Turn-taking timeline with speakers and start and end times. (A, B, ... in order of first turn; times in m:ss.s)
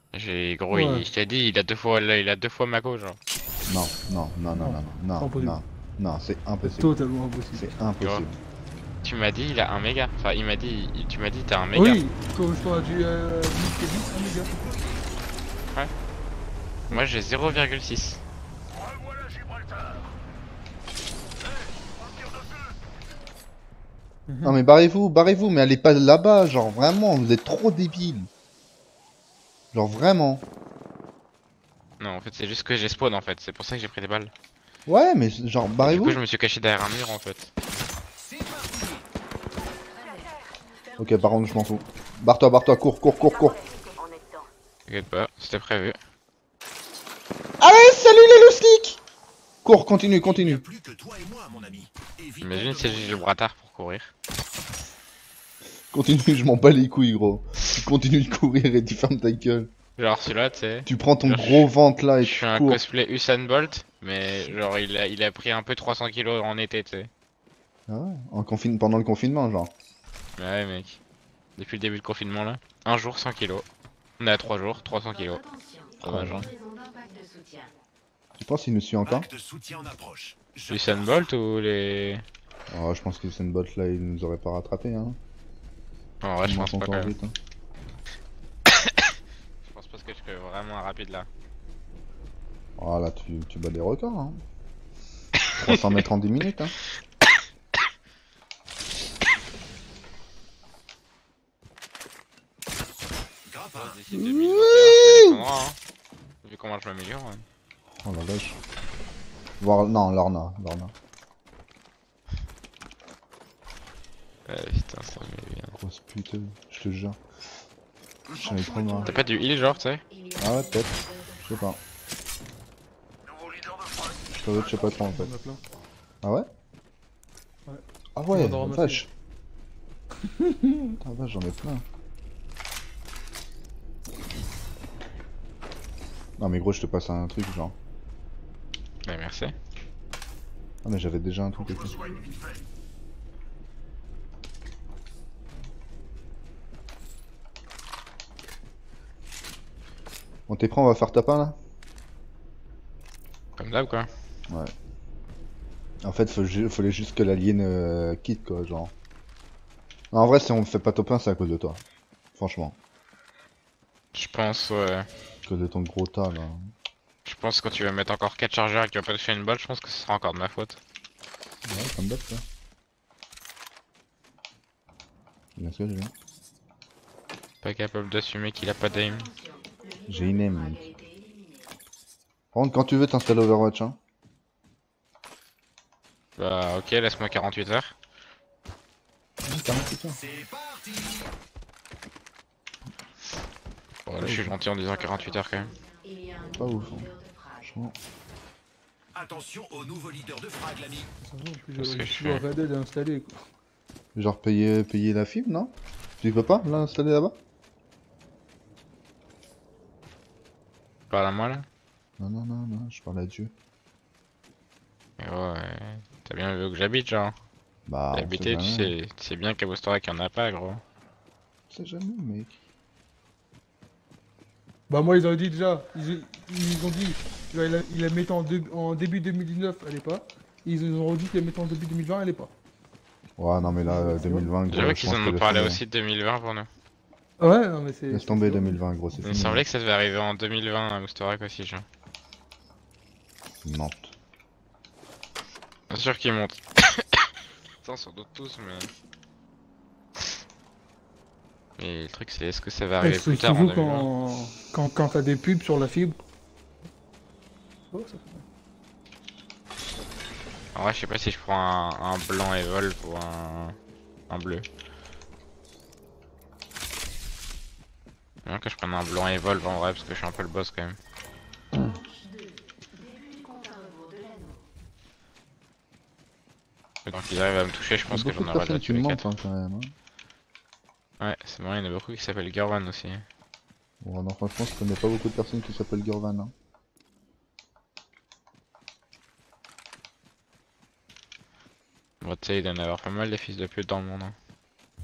0:00.1-0:03.2 A
0:00.7-0:01.0 B
0:03.7-0:06.9 C
0:04.6-0:05.6 B
0:06.6-0:07.7 B
0:07.5-0:08.4 C
0:08.0-0:08.2 A
0:09.0-0:12.0 A
0:11.7-0:14.6 B
0:14.6-0:14.8 D
0:16.9-0:18.2 A
0:24.3-0:24.6 B
0:24.4-0:28.3 C
0:29.7-0:30.4 C
0:32.0-0:34.3 A
0:34.9-0:36.2 C
0:35.8-0:37.5 A
0:38.2-0:39.0 D
0:39.9-0:41.8 E
0:41.0-0:43.6 C
0:43.2-0:44.5 E
0:44.9-0:46.0 A
0:47.6-0:49.0 C
0:49.6-0:50.6 C
0:50.2-0:53.2 D
0:52.4-0:54.1 A
0:55.9-0:59.7 C
1:00.0-1:07.1 A
1:00.8-1:02.8 C
1:07.9-1:09.7 C
1:10.4-1:11.0 A
1:11.6-1:13.6 A
1:14.2-1:15.4 A
1:14.8-1:17.7 E
1:16.0-1:16.4 C
1:16.0-1:16.4 A
1:18.4-1:19.3 C
1:19.0-1:21.3 D
1:20.7-1:22.2 A
1:22.7-1:25.2 C
1:26.2-1:27.1 A
1:26.4-1:27.3 C
1:28.8-1:29.1 A
1:29.6-1:31.3 A
1:32.8-1:34.4 C
1:35.5-1:36.0 A
1:35.6-1:36.8 C
1:43.4-1:44.0 D
1:43.7-1:45.8 A
1:44.1-1:45.4 C
1:46.4-1:47.4 A
1:48.0-1:48.6 C
1:49.6-1:50.9 C
1:54.5-1:55.8 A
1:55.8-1:57.2 C
1:58.4-1:59.1 C
1:58.4-2:01.8 E
1:59.0-2:00.0 A
2:00.4-2:00.9 C
2:01.4-2:01.8 C
2:03.3-2:04.1 D
2:04.3-2:05.3 C
2:05.0-2:05.6 B
2:06.2-2:06.5 C
2:07.7-2:09.0 B
2:08.2-2:09.1 C
2:10.4-2:11.0 B
2:11.0-2:11.8 C
2:16.4-2:17.7 C
2:19.0-2:19.6 A
2:20.8-2:22.0 C
2:21.5-2:22.6 D
2:30.5-2:31.6 C
2:33.6-2:34.1 A
2:36.0-2:38.9 C
2:40.1-2:41.8 C
2:42.4-2:42.8 C
2:44.1-2:45.1 A
2:45.4-2:46.7 C
2:47.2-2:50.8 A
2:51.6-2:52.4 C
2:55.6-2:56.1 C
2:57.6-2:59.3 A
2:58.6-3:01.7 E
3:00.1-3:00.9 C
3:02.5-3:04.0 C
3:06.4-3:08.0 A
3:09.4-3:10.2 C
3:10.1-3:11.3 D
3:14.0-3:15.7 A
3:14.2-3:14.5 C
3:14.6-3:17.7 E
3:16.6-3:17.1 C
3:17.6-3:17.9 C
3:19.1-3:21.1 D
3:21.2-3:23.4 B
3:21.8-3:22.4 A
3:24.1-3:27.4 C
3:31.1-3:31.6 A
3:32.2-3:33.5 C
3:35.2-3:37.3 A
3:37.8-3:38.9 C
3:38.1-3:40.8 A
3:41.7-3:42.6 C
3:44.9-3:52.5 B
3:53.4-3:55.8 C
3:53.7-3:54.5 B
3:54.7-3:56.7 A
3:57.4-3:58.8 B
3:58.1-3:59.6 C
3:59.2-4:01.8 A
4:03.6-4:04.1 C
4:05.9-4:07.2 A
4:07.8-4:08.9 A
4:11.8-4:14.1 A
4:13.0-4:16.2 B
4:17.9-4:18.4 B
4:20.7-4:23.8 A
4:24.3-4:24.6 A
4:28.4-4:31.0 A
4:31.7-4:34.6 E
4:37.0-4:39.2 A
4:38.1-4:39.9 C
4:41.2-4:43.2 A
4:44.0-4:46.5 C
4:52.2-4:54.3 A